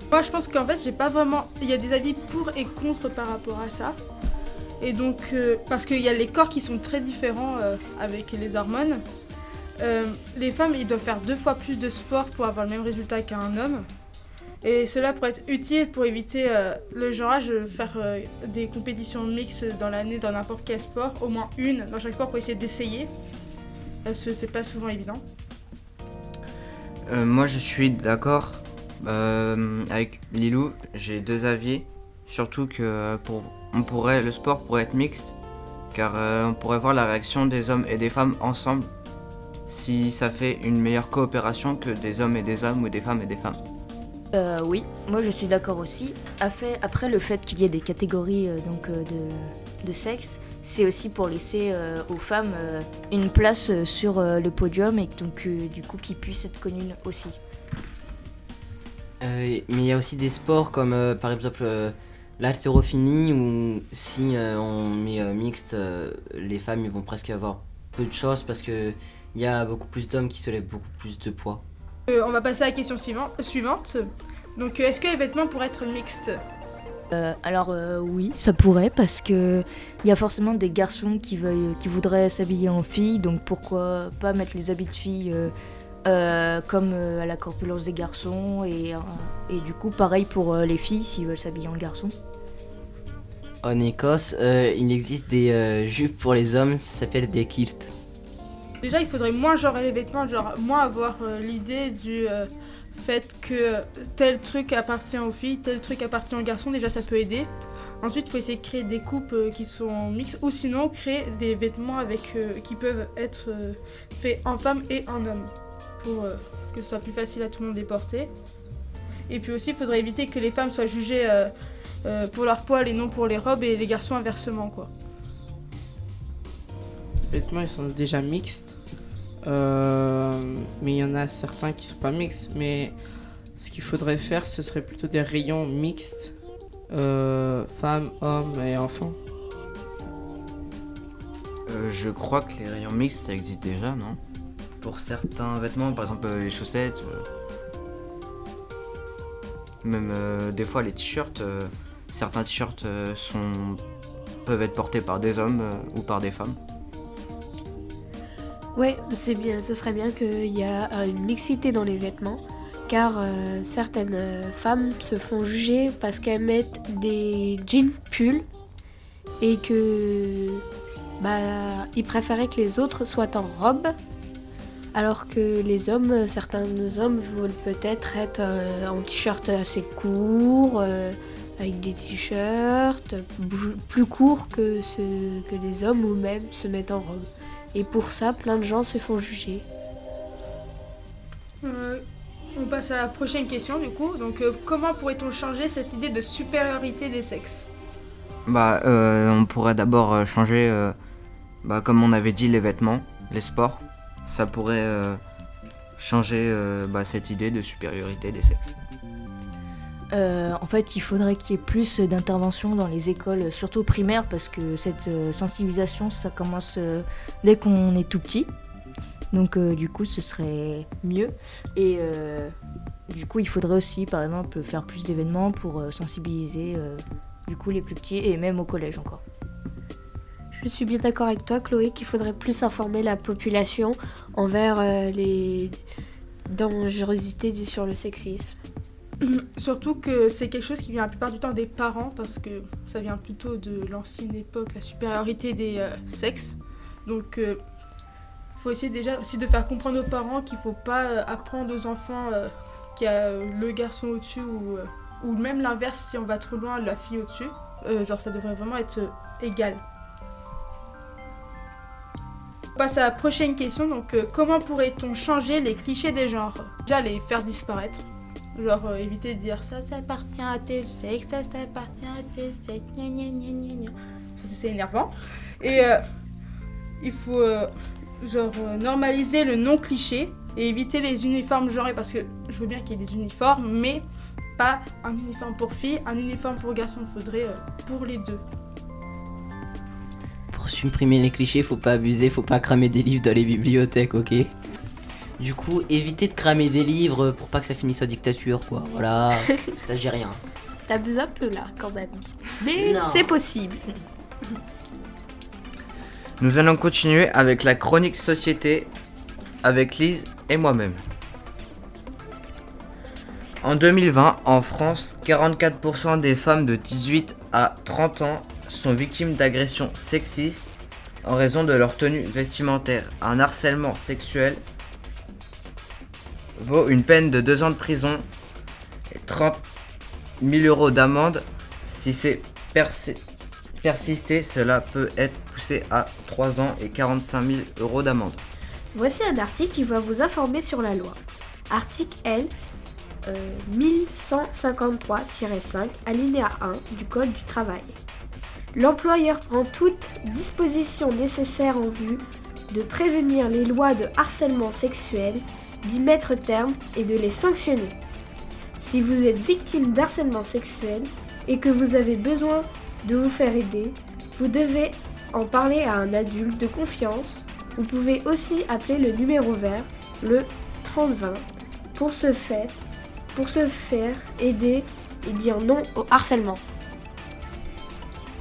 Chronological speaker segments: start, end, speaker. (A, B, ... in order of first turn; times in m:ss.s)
0:00.1-0:04.0 A
0:04.8-0:09.0 A
0:09.8-0:13.8 A
0:14.6-0:23.1 A
0:24.0-0:25.2 A
0:27.1-0:35.3 B
0:35.9-0:38.9 B
0:39.7-0:43.6 B
0:44.3-0:57.4 C
0:59.2-1:11.6 D
1:12.1-1:16.4 A
1:17.1-1:25.5 C
1:26.0-1:32.1 C
1:33.6-1:37.9 D
1:38.8-1:47.5 A
1:48.0-1:58.3 A
1:59.3-2:01.5 A
2:02.0-2:04.9 A
2:07.3-2:08.6 E
2:09.4-2:12.9 E
2:13.6-2:16.3 E
2:16.9-2:19.1 E
2:21.7-2:24.2 B
2:24.8-2:27.2 B
2:29.8-2:33.8 B
2:34.4-2:36.6 B
2:38.7-2:48.4 F
2:49.4-2:50.6 F
2:51.2-2:53.9 F
2:54.9-3:09.6 F
3:11.6-3:12.0 A
3:12.5-3:17.6 A
3:18.4-3:21.0 B
3:21.6-3:25.2 B
3:26.0-3:28.8 B
3:30.1-3:38.5 C
3:39.3-3:42.5 C
3:43.1-3:49.2 C
3:50.5-3:55.8 F
3:56.5-3:58.6 F
3:59.2-4:07.6 A
4:08.6-4:19.8 A
4:22.7-4:28.0 A
4:28.6-4:36.0 A
4:37.0-4:44.0 A
4:44.6-4:48.4 A
4:50.5-4:54.5 D
4:55.4-5:00.4 D
5:00.9-5:03.8 F
5:02.8-5:03.2 D
5:06.4-5:08.9 B
5:09.6-5:11.0 B
5:13.6-5:20.7 B
5:21.2-5:24.6 B
5:26.6-5:28.3 B
5:29.1-5:29.6 B
5:30.4-5:33.2 B
5:33.8-5:38.4 B
5:38.9-5:41.2 F
5:41.7-5:42.5 F
5:43.2-5:48.0 F
5:48.7-5:58.0 F
5:58.8-6:12.7 F
6:13.3-6:16.6 F